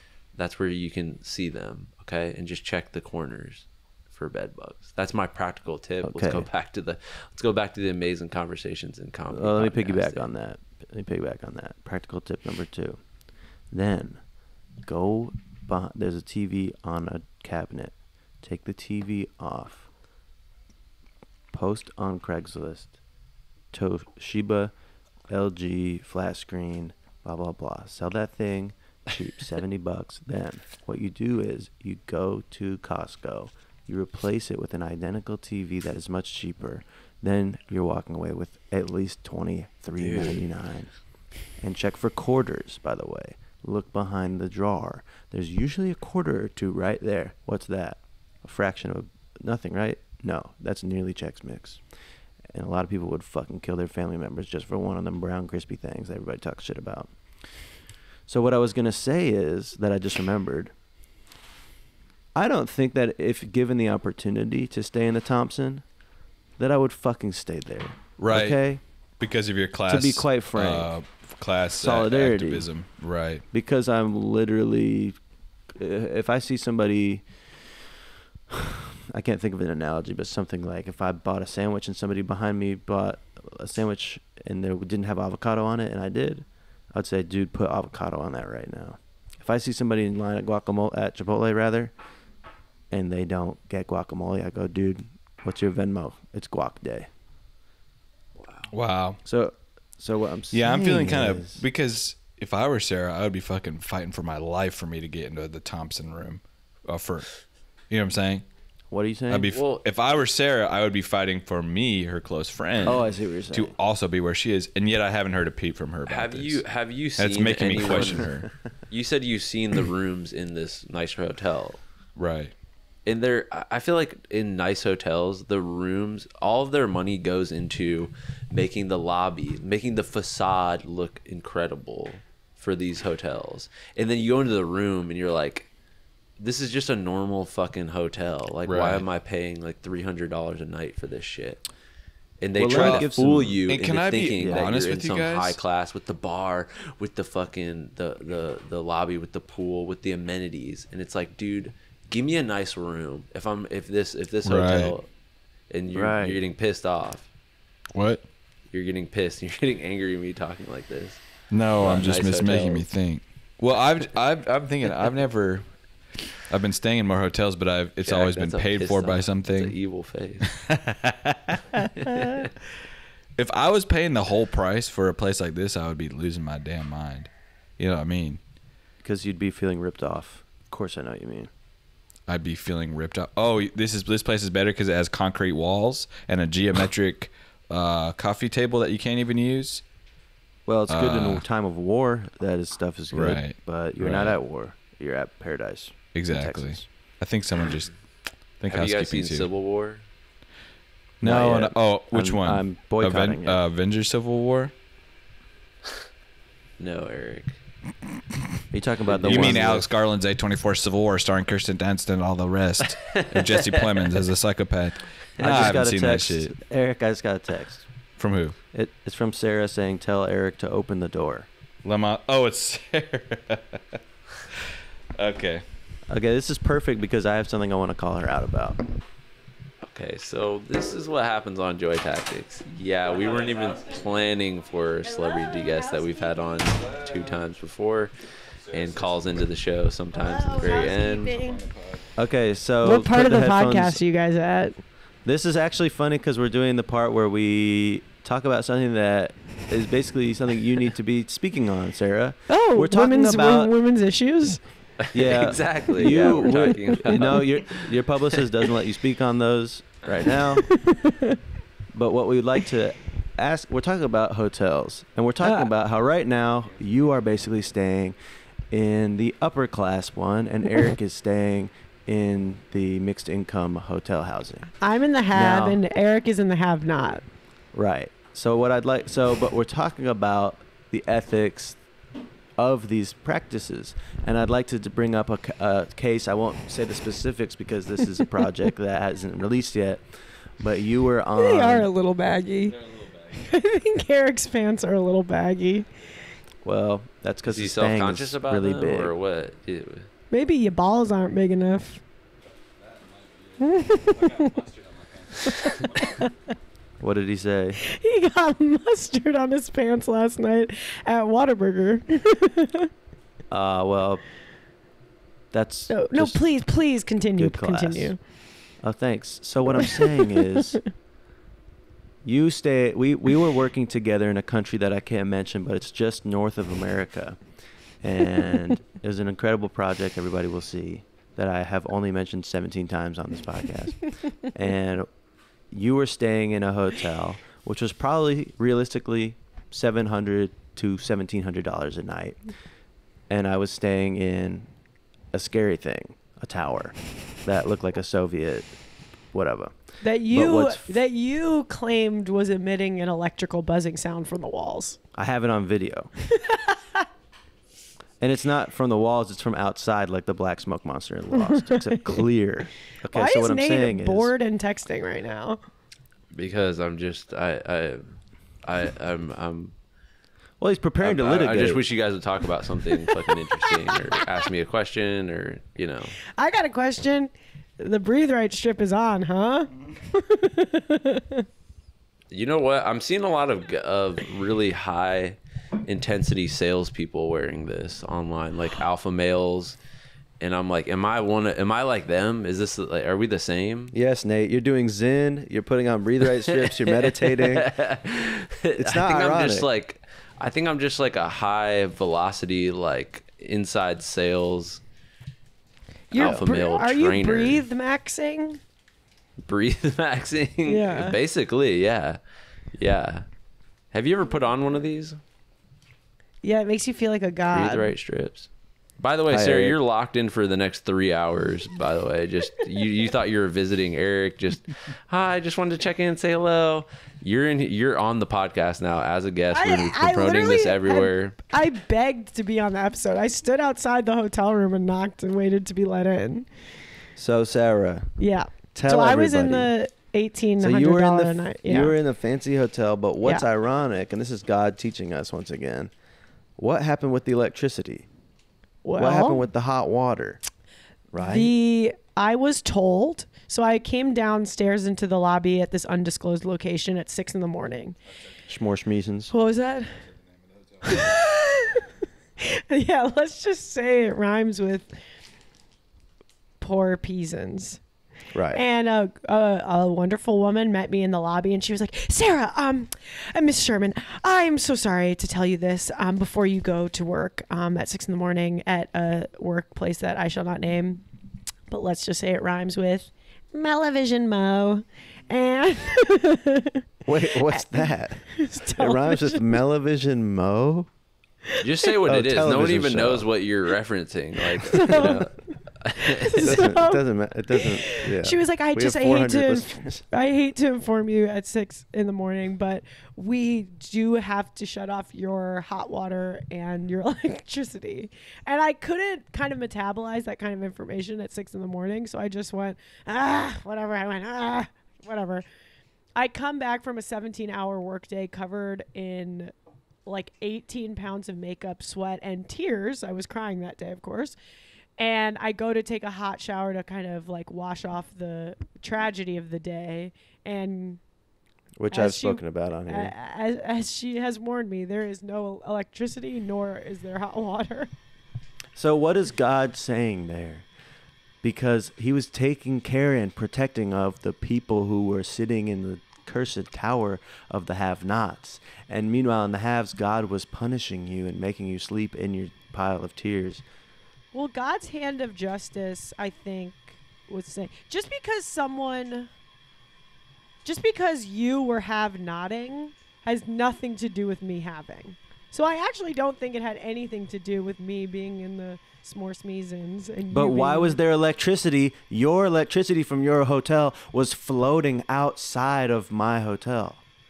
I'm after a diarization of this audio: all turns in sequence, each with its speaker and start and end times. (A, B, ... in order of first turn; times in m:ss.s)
0:00.3-0:10.3 A
0:06.0-0:06.5 B
0:09.3-0:13.0 B
0:13.7-0:14.2 B
0:14.8-0:19.9 B
0:21.5-0:23.0 B
0:23.7-0:24.7 B
0:25.3-0:51.8 B
0:40.0-0:40.4 A
0:52.5-0:57.1 B
0:58.3-1:00.7 B
1:02.4-1:05.8 B
1:06.6-1:08.8 B
1:08.2-1:13.4 C
1:09.9-1:10.9 B
1:11.8-1:12.7 B
1:13.5-1:15.2 B
1:15.7-1:17.3 B
1:18.5-1:31.9 B
1:32.9-1:37.1 B
1:38.4-1:38.7 A
1:38.7-1:39.2 C
1:39.2-1:41.6 B
1:40.5-1:48.5 C
1:48.9-1:49.5 B
1:49.3-1:56.6 C
1:49.5-1:49.8 A
1:52.8-1:53.7 B
1:56.1-1:58.3 A
1:57.2-1:58.5 C
1:57.8-1:58.3 B
1:58.9-2:01.8 A
2:02.2-2:02.5 C
2:03.0-2:15.7 A
2:16.4-2:21.6 A
2:18.7-2:19.0 C
2:22.4-2:35.1 A
2:22.5-2:23.6 B
2:22.7-2:23.1 C
2:23.7-2:25.6 C
2:24.4-2:24.7 B
2:34.4-2:34.9 C
2:35.7-2:37.3 A
2:35.9-2:36.4 B
2:37.9-2:38.2 C
2:38.7-2:42.9 A
2:41.5-2:45.8 C
2:46.3-2:49.8 C
2:48.0-2:50.5 A
2:50.5-2:51.8 C
2:52.0-2:52.5 A
2:53.4-2:58.4 C
2:59.0-3:01.5 B
3:02.3-3:09.8 C
3:10.6-3:16.8 B
3:10.9-3:11.4 C
3:13.1-3:14.4 C
3:16.1-3:19.5 C
3:18.7-3:20.0 A
3:21.2-3:24.7 C
3:21.2-3:23.6 B
3:26.8-3:27.6 A
3:28.7-3:29.9 B
3:29.1-3:29.7 A
3:29.2-3:36.6 C
3:33.1-3:34.0 A
3:35.4-3:35.7 A
3:35.4-3:37.9 B
3:38.2-3:38.6 C
3:38.7-3:41.5 B
3:41.8-3:43.8 C
3:45.2-3:45.6 C
3:46.1-3:48.8 B
3:49.8-4:01.3 A
3:53.1-3:54.0 C
3:55.0-3:56.4 D
3:56.7-3:57.3 C
3:58.6-3:59.4 C
4:00.1-4:01.6 D
4:00.5-4:02.1 C
4:02.2-4:04.0 B
4:02.8-4:04.8 D
4:05.2-4:13.7 B
4:12.5-4:14.6 D
4:15.0-4:18.4 A
4:15.1-4:20.7 B
4:15.9-4:17.4 D
4:20.6-4:21.4 D
4:21.9-4:28.2 B
4:25.4-4:25.7 D
4:28.7-4:34.7 B
4:34.8-4:37.2 D
4:35.3-4:35.8 B
4:37.7-4:41.8 B
4:42.6-4:51.9 B
4:51.4-4:52.8 D
4:52.7-4:53.3 C
4:53.3-4:55.9 D
4:56.6-4:59.1 B
4:57.4-5:00.1 A
5:00.3-5:02.0 D
5:02.8-5:06.2 C
5:03.6-5:04.5 D
5:05.4-5:06.3 D
5:07.0-5:07.8 B
5:07.9-5:12.9 D
5:13.5-5:14.2 B
5:15.5-5:16.4 B
5:15.9-5:18.2 D
5:17.3-5:18.2 B
5:18.8-5:20.8 B
5:19.8-5:20.6 D
5:22.2-5:27.4 B
5:28.0-5:35.1 B
5:35.7-5:42.4 B
5:43.3-5:44.7 B
5:45.3-5:48.8 B
5:49.3-5:51.0 B
5:50.0-5:55.0 D
5:55.1-5:56.1 B
5:56.4-5:57.0 D
5:58.2-6:04.3 B
6:03.1-6:05.6 D
6:06.3-6:09.7 A
6:10.6-6:11.8 B
6:11.0-6:16.2 A
6:16.3-6:21.5 D
6:22.3-6:29.8 A
6:30.4-6:33.9 A
6:33.9-6:37.7 B
6:36.5-6:44.8 A
6:38.8-6:39.7 B
6:46.1-6:48.6 D
6:46.1-6:47.6 A
6:49.4-6:52.2 A
6:50.6-6:51.2 D
6:52.7-6:53.3 A
6:53.9-6:55.2 A
6:56.4-6:57.9 D
6:57.5-7:11.4 A
6:59.3-6:59.8 B
7:09.5-7:16.5 D
7:17.2-7:18.1 B
7:18.2-7:21.9 D
7:18.7-7:19.7 B
7:20.6-7:25.9 B
7:26.6-7:28.1 B
7:28.8-7:29.5 D
7:29.0-7:30.4 B
7:31.1-7:31.5 B
7:31.2-7:38.0 D
7:38.5-7:39.3 B
7:39.3-7:40.1 D
7:40.8-7:41.8 D
7:42.4-7:45.0 D
7:46.6-7:47.8 D
7:48.3-7:48.6 B
7:48.5-8:01.0 D
8:01.7-8:06.8 D
8:07.0-8:10.9 B
8:08.3-8:09.5 D
8:11.6-8:16.6 A
8:12.0-8:13.3 B
8:14.5-8:35.4 D
8:16.4-8:20.0 B
8:36.2-8:39.5 D
8:40.0-8:44.4 D
8:45.0-8:51.0 D
8:51.8-8:53.1 B
8:51.9-8:57.9 D
8:58.7-9:00.7 B
9:01.4-9:13.6 B
9:14.3-9:19.3 D
9:20.6-9:31.0 D
9:30.3-9:37.0 B